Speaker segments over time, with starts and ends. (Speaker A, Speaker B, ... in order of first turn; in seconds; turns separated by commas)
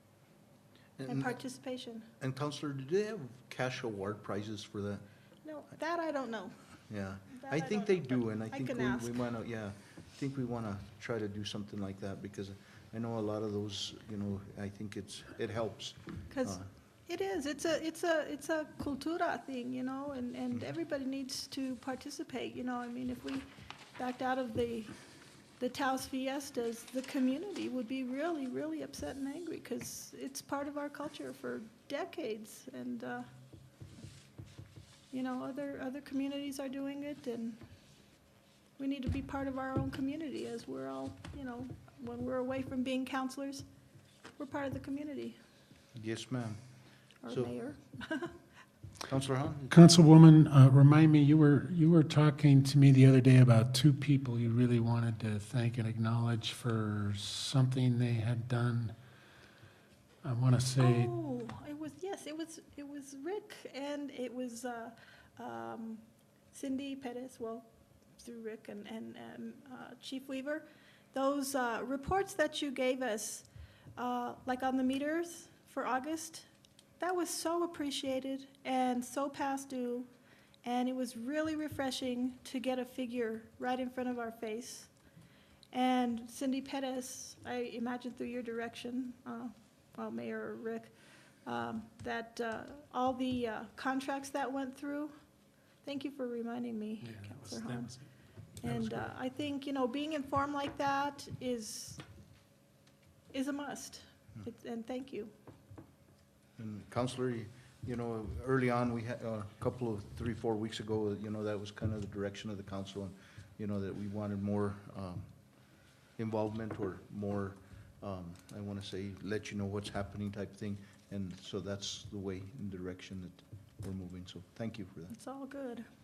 Speaker A: 1.0-1.4, Speaker B: 1.1-2.1, Speaker A: 2.2-5.0, Speaker B: 5.4-6.6, Speaker A: 6.9-16.6, Speaker B: 7.3-9.1, Speaker B: 16.3-24.9, Speaker B: 25.6-33.3, Speaker B: 35.1-37.6, Speaker B: 38.8-43.6, Speaker B: 44.4-45.4, Speaker A: 45.9-46.6, Speaker B: 47.2-48.3, Speaker A: 49.0-49.8, Speaker C: 49.7-58.9, Speaker C: 60.2-61.1, Speaker B: 60.8-67.7, Speaker B: 68.2-76.5, Speaker B: 77.0-80.1, Speaker B: 80.6-84.9, Speaker B: 85.7-90.9, Speaker B: 91.4-95.1, Speaker B: 95.8-97.9, Speaker C: 97.0-98.0, Speaker B: 98.6-102.0, Speaker C: 98.6-99.1, Speaker B: 103.3-105.3, Speaker A: 106.6-115.2, Speaker A: 116.2-125.1, Speaker B: 125.1-125.8